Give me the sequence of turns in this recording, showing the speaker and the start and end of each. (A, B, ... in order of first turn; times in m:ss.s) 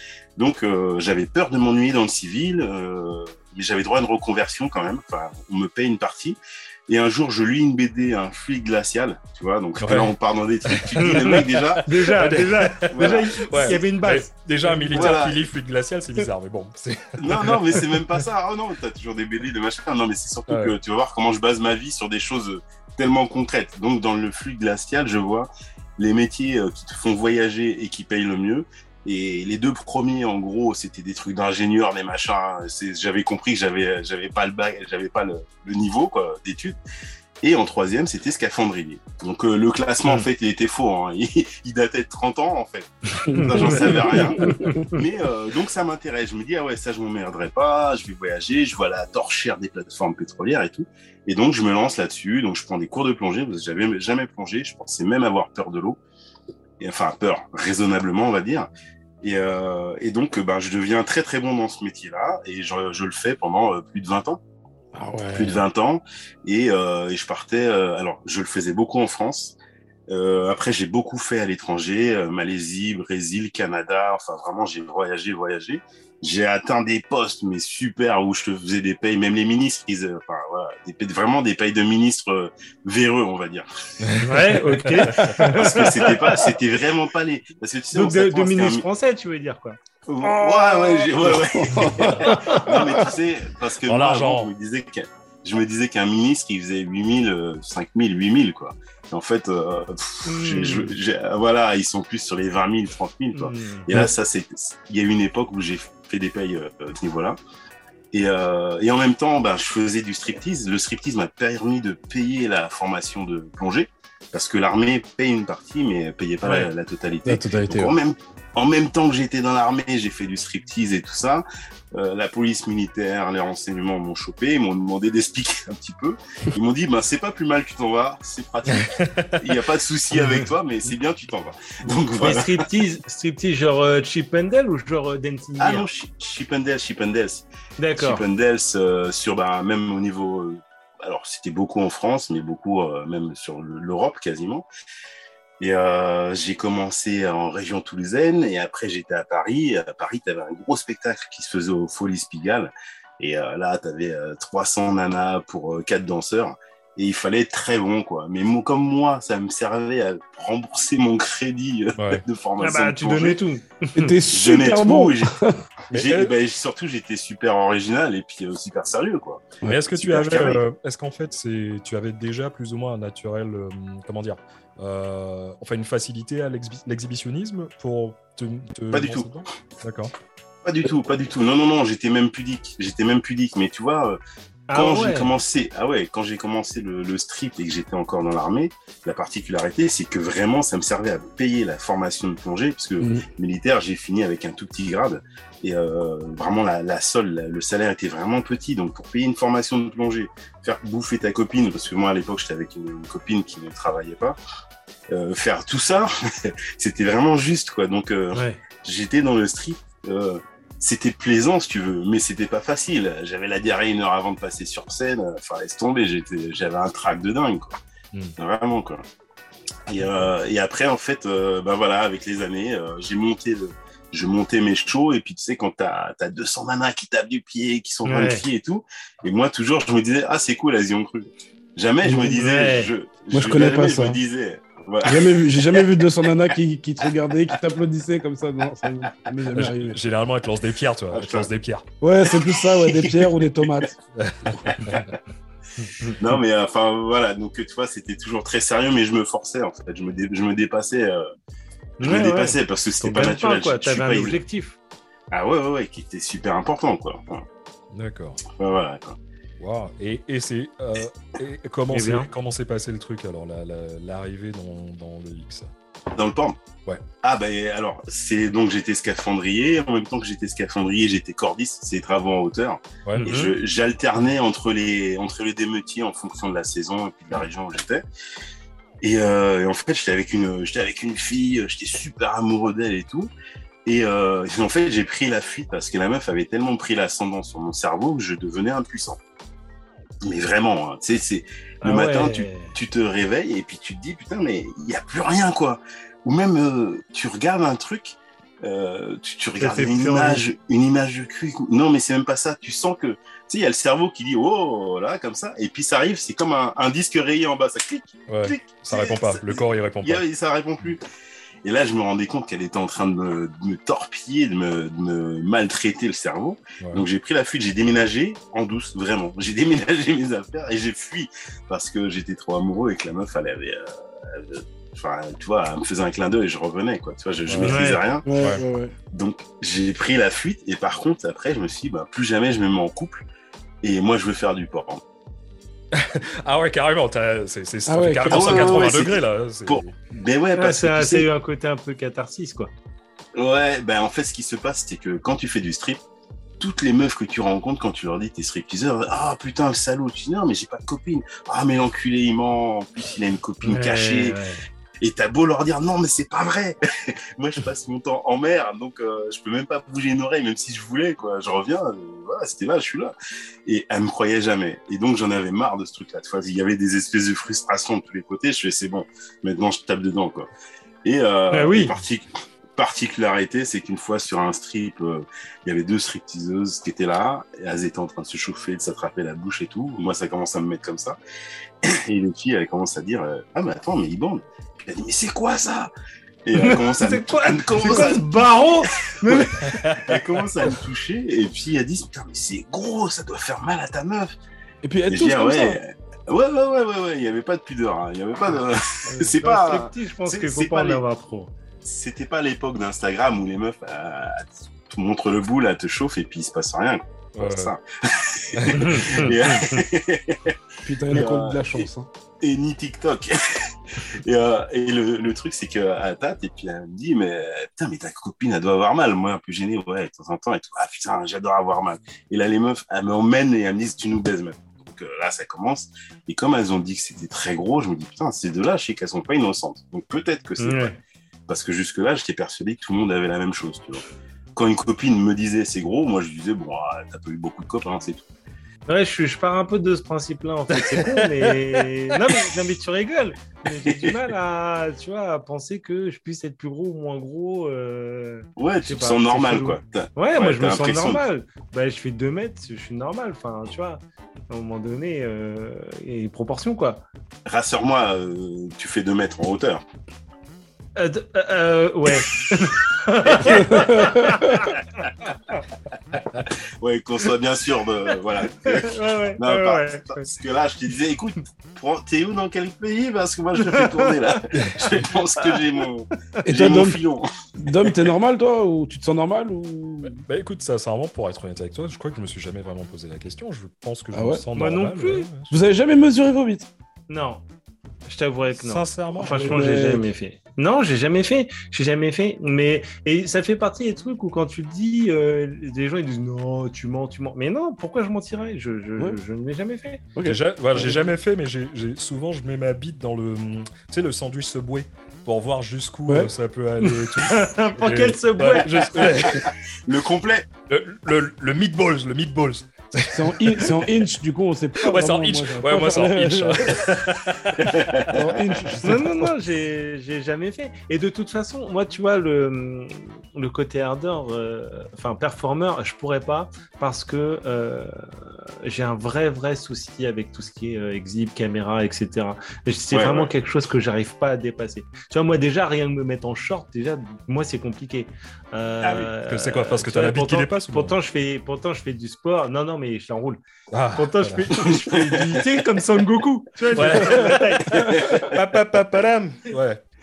0:00.4-0:11.9 A
0:09.8-0:10.1 B
0:10.7-0:17.8 B
0:11.0-0:15.2 C
0:12.9-0:13.8 A
0:14.9-0:15.4 A
0:17.2-0:36.8 A
0:20.5-0:20.8 B
0:37.4-0:56.0 A
0:43.2-0:44.8 D
0:43.3-0:45.0 C
0:56.8-0:58.7 A
0:59.2-1:04.4 A
1:04.9-1:05.6 D
1:05.3-1:09.6 A
1:10.1-1:23.7 A
1:24.0-1:24.4 B
1:24.2-1:26.4 C
1:25.2-1:25.5 D
1:25.6-1:28.9 A
1:27.9-1:29.8 C
1:30.1-1:47.4 A
1:30.2-1:33.1 D
1:32.2-1:32.6 C
1:33.8-1:34.5 B
1:40.3-1:40.9 C
1:43.4-1:43.8 C
1:48.1-2:12.6 A
1:57.3-1:57.9 D
2:08.8-2:09.5 B
2:12.2-2:15.9 C
2:15.6-2:24.7 A
2:17.8-2:18.2 C
2:25.6-2:43.4 A
2:42.0-2:42.2 B
2:42.6-2:44.1 C
2:44.0-2:45.6 D
2:44.3-2:45.4 A
2:45.9-2:46.3 B
2:45.9-2:50.6 A
2:49.7-3:00.1 B
2:58.9-2:59.4 A
3:00.6-3:04.2 A
3:04.7-3:05.3 C
3:04.7-3:24.4 A
3:13.0-3:13.3 D
3:25.1-3:37.7 A
3:28.3-3:28.6 C
3:38.4-3:39.0 A
3:39.9-3:56.5 A
3:48.1-3:48.4 C
3:52.0-3:52.3 D
3:52.4-3:52.9 C
3:53.3-3:54.2 D
3:55.0-4:00.0 D
3:59.5-4:01.9 B
4:01.1-4:01.5 A
4:02.0-4:04.0 D
4:02.4-4:03.4 A
4:04.2-4:05.1 B
4:04.6-4:05.2 A
4:06.1-4:11.2 A
4:12.0-4:14.8 C
4:12.0-4:14.4 A
4:15.3-4:17.4 A
4:17.9-4:18.4 B
4:18.6-4:19.2 A
4:19.6-4:25.7 B
4:21.9-4:22.3 C
4:26.2-4:26.6 A
4:27.2-4:38.0 A
4:33.1-4:33.5 B
4:33.2-4:33.5 C
4:39.0-4:43.3 A
4:43.9-4:49.2 A
4:50.2-5:11.0 A
4:51.8-4:52.7 C
4:59.6-5:00.4 C
5:08.3-5:10.2 B
5:11.6-5:28.3 A
5:16.8-5:17.1 B
5:27.5-5:27.8 B
5:27.6-5:28.0 C
5:28.2-5:28.9 D
5:28.4-5:28.6 B
5:29.1-5:33.2 A
5:33.8-5:35.0 A
5:35.9-5:39.8 B
5:37.9-5:38.8 D
5:38.3-5:41.3 A
5:40.6-5:42.7 C
5:43.4-5:46.0 A
5:46.6-5:54.4 A
5:53.6-5:54.6 C
5:55.0-6:03.1 A
6:03.7-6:10.5 A
6:11.0-6:21.2 A
6:11.5-6:11.9 C
6:21.8-6:25.9 A
6:26.4-6:34.3 A
6:26.6-6:29.6 C
6:29.6-6:30.2 B
6:34.8-6:35.8 D
6:35.1-6:41.0 A
6:39.1-6:41.5 C
6:41.8-6:50.6 A
6:47.4-6:47.7 B
6:48.6-6:49.4 B
6:48.7-6:49.3 C
6:50.8-6:52.1 D
6:51.1-6:51.9 A
6:52.4-7:10.9 A
7:10.6-7:11.0 C
7:11.5-7:14.0 A
7:14.6-7:18.3 A
7:18.9-7:37.0 C
7:20.9-7:21.5 B
7:28.6-7:31.2 A
7:37.5-7:39.8 A
7:41.0-7:44.8 C
7:43.2-7:44.0 A
7:43.8-7:44.5 D
7:46.8-7:58.0 A
7:48.6-7:50.3 C
7:53.6-7:54.4 C
7:56.4-7:57.0 D
7:57.6-8:00.2 D
8:00.0-8:05.5 B
8:04.1-8:04.4 D
8:04.6-8:05.3 C
8:05.5-8:06.7 D
8:07.1-8:07.4 C
8:08.1-8:20.0 C
8:08.5-8:09.6 B
8:09.4-8:10.0 D
8:20.2-8:21.1 D
8:20.2-8:29.5 B
8:27.2-8:29.2 C
8:29.9-8:30.5 A
8:30.7-8:33.8 B
8:33.1-8:36.8 D
8:34.8-8:38.2 B
8:37.6-8:38.1 A
8:38.1-8:39.3 D
8:38.8-9:03.4 C
8:52.9-8:53.3 A
8:58.8-8:59.1 A
8:59.2-9:01.0 B
9:03.7-9:04.5 B
9:04.0-9:09.5 C
9:06.8-9:09.8 B
9:07.8-9:08.2 A